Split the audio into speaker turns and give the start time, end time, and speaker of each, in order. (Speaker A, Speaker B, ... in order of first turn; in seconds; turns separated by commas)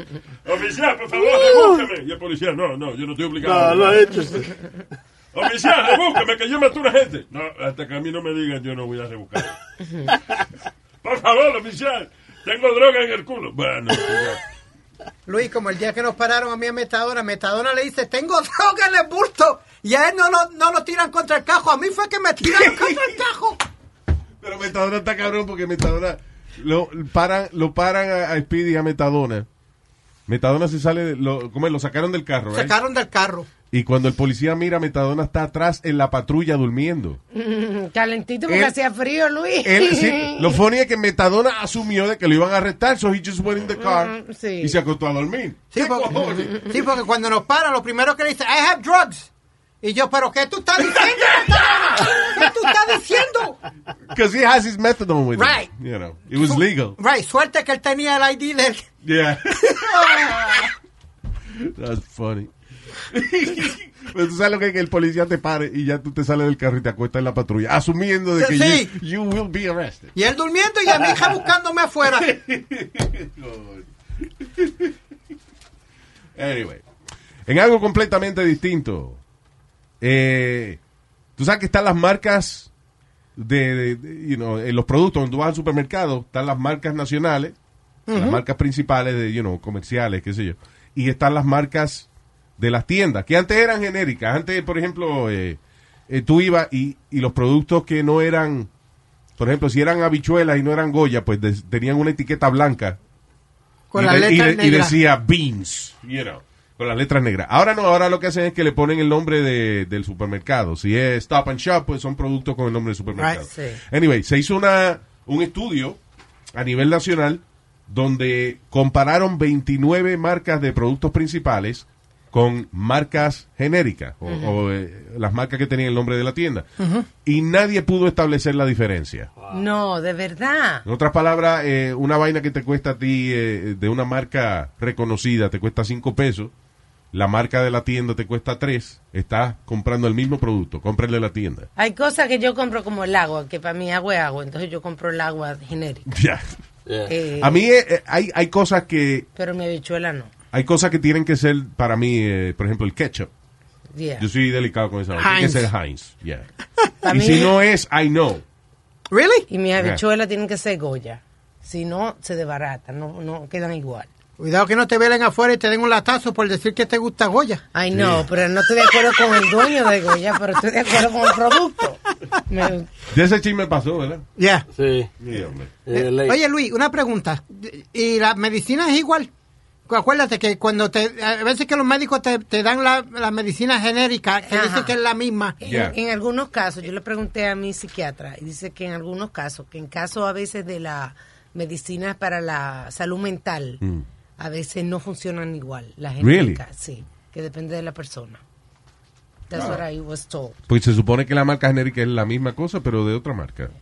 Speaker A: 0.4-4.3, Speaker B: 3.4-4.6, Speaker A: 5.3-9.5, Speaker A: 11.0-14.4, Speaker C: 15.2-23.6, Speaker D: 22.4-23.2, Speaker D: 24.4-29.5, Speaker D: 30.3-32.7, Speaker C: 32.5-33.5, Speaker D: 33.7-37.2, Speaker E: 37.3-40.6, Speaker D: 38.5-38.7, Speaker D: 39.6-46.9, Speaker E: 43.8-44.8, Speaker C: 45.7-49.3, Speaker C: 49.8-53.6, Speaker D: 50.8-52.5, Speaker D: 54.1-57.0, Speaker C: 55.4-55.7, Speaker C: 56.4-58.9, Speaker D: 59.0-60.7, Speaker C: 59.7-60.6, Speaker D: 61.5-62.5, Speaker D: 63.0-70.1, Speaker C: 68.4-68.9, Speaker C: 70.1-72.3, Speaker D: 72.0-74.9, Speaker D: 76.3-76.8, Speaker D: 77.5-79.2, Speaker D: 80.0-80.8, Speaker D: 81.4-82.7, Speaker D: 83.3-87.5, Speaker C: 88.1-88.4, Speaker D: 88.1-92.1, Speaker D: 92.6-98.7, Speaker D: 99.4-103.0, Speaker C: 103.9-104.9, Speaker D: 104.0-116.0, Speaker E: 113.5-113.8, Speaker D: 116.5-126.7, Speaker E: 124.2-124.6, Speaker C: 126.8-127.1, Speaker D: 127.2-129.3, Speaker B: 129.4-129.7, Speaker E: 129.5-130.8, Speaker D: 130.8-136.5, Speaker D: 137.1-141.7, Speaker E: 141.8-146.1, Speaker D: 146.1-146.6, Speaker B: 146.8-147.1, Speaker E: 147.1-147.6, Speaker D: 147.4-149.3, Speaker E: 149.3-150.3, Speaker D: 150.5-153.3, Speaker E: 153.9-154.3, Speaker D: 154.2-156.5, Speaker C: 155.2-155.7, Speaker E: 157.0-157.5, Speaker D: 157.0-158.4, Speaker C: 159.1-159.5, Speaker E: 159.5-164.1, Speaker C: 164.4-167.6, Speaker E: 167.7-172.9, Speaker D: 167.9-168.2, Speaker D: 173.1-174.2, Speaker C: 174.4-174.7, Speaker B: 174.7-175.1, Speaker D: 175.2-175.7, Speaker B: 175.8-176.4, Speaker C: 175.9-179.3, Speaker C: 179.9-185.6, Speaker E: 184.4-184.9, Speaker E: 185.6-193.8, Speaker D: 185.6-185.9, Speaker E: 194.4-198.4, Speaker D: 196.2-196.6, Speaker E: 199.5-200.6, Speaker D: 199.5-199.8, Speaker D: 200.7-203.7